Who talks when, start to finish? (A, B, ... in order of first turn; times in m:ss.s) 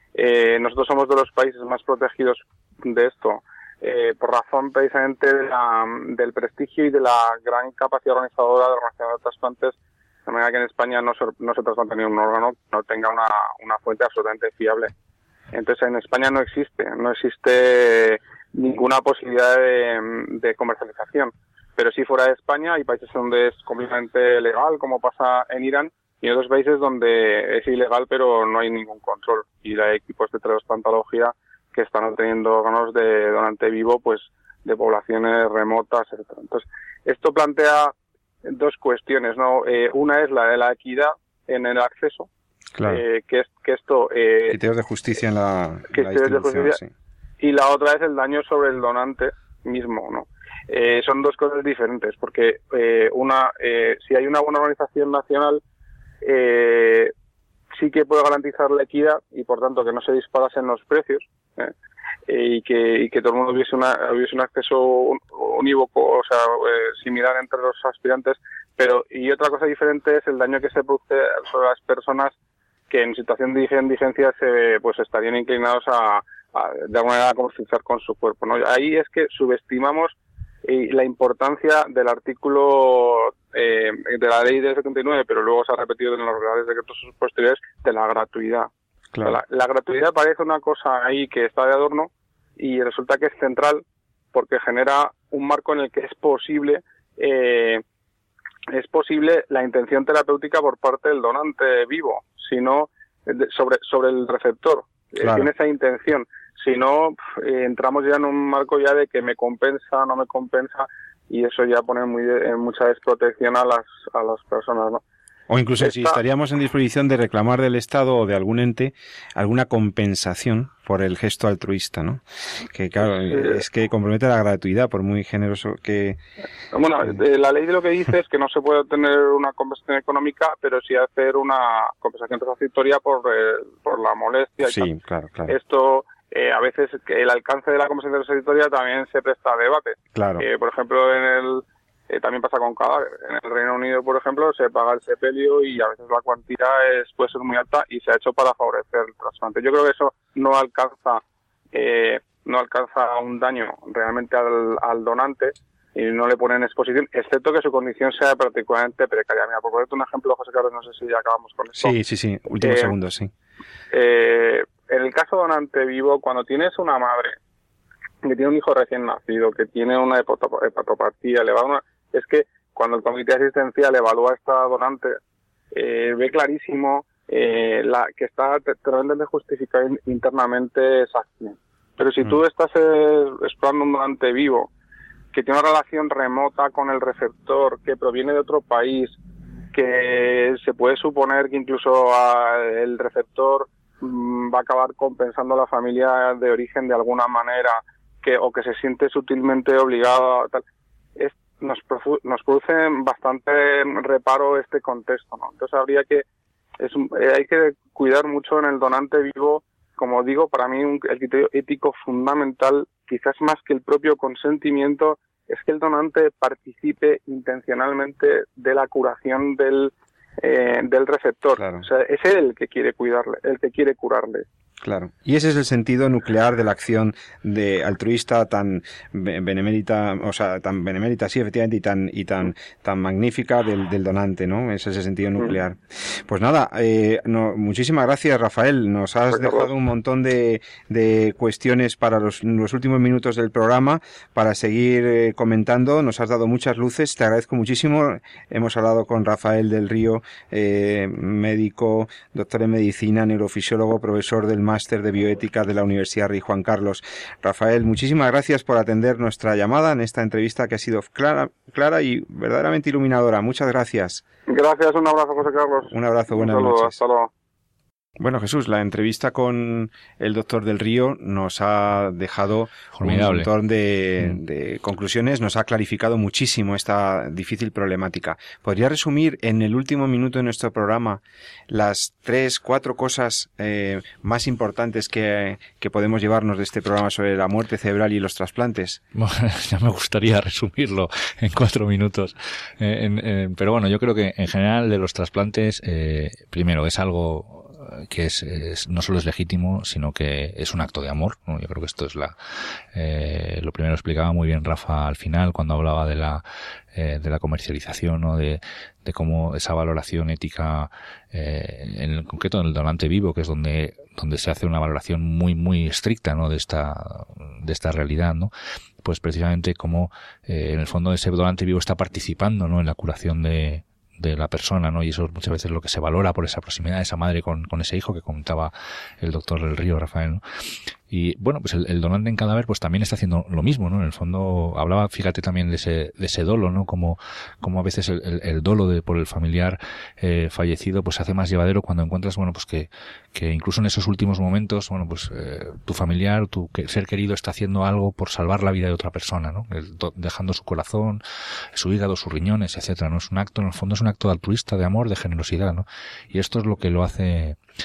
0:00.1-0:09.7 A
0:10.2-0:14.9 A
0:15.5-0:37.9 A
0:38.4-0:42.3 A
0:42.8-0:43.0 B
0:42.9-0:44.6 A
0:44.5-0:46.9 B
0:45.9-0:46.8 A
0:47.4-0:55.6 A
0:56.2-0:57.1 A
0:57.7-1:01.7 A
1:02.3-1:12.3 A
1:12.9-1:28.7 A
1:29.1-1:29.4 B
1:29.2-1:37.8 A
1:38.7-1:55.0 A
1:45.2-1:45.5 B
1:55.5-2:06.2 B
1:55.8-1:56.2 A
2:03.3-2:03.6 A
2:06.7-2:14.9 A
2:14.6-2:15.6 B
2:15.5-2:31.2 A
2:20.1-2:20.4 B
2:31.7-2:41.9 A
2:41.8-2:43.3 B
2:42.6-2:42.9 A
2:43.9-2:47.4 A
2:48.2-2:55.2 A
2:55.7-3:04.7 A
3:05.3-3:09.2 A
3:09.7-3:20.6 A
3:21.2-3:26.2 A
3:26.8-3:44.4 A
3:41.6-3:41.8 B
3:44.8-4:24.2 B
3:59.3-3:59.7 A
4:24.5-4:27.3 A
4:25.9-4:27.0 B
4:28.2-4:49.0 B
4:32.9-4:33.5 C
4:49.1-5:02.4 C
5:02.9-5:06.4 C
5:06.9-5:18.5 C
5:19.0-5:30.4 C
5:31.1-5:51.2 C
5:51.7-5:57.6 C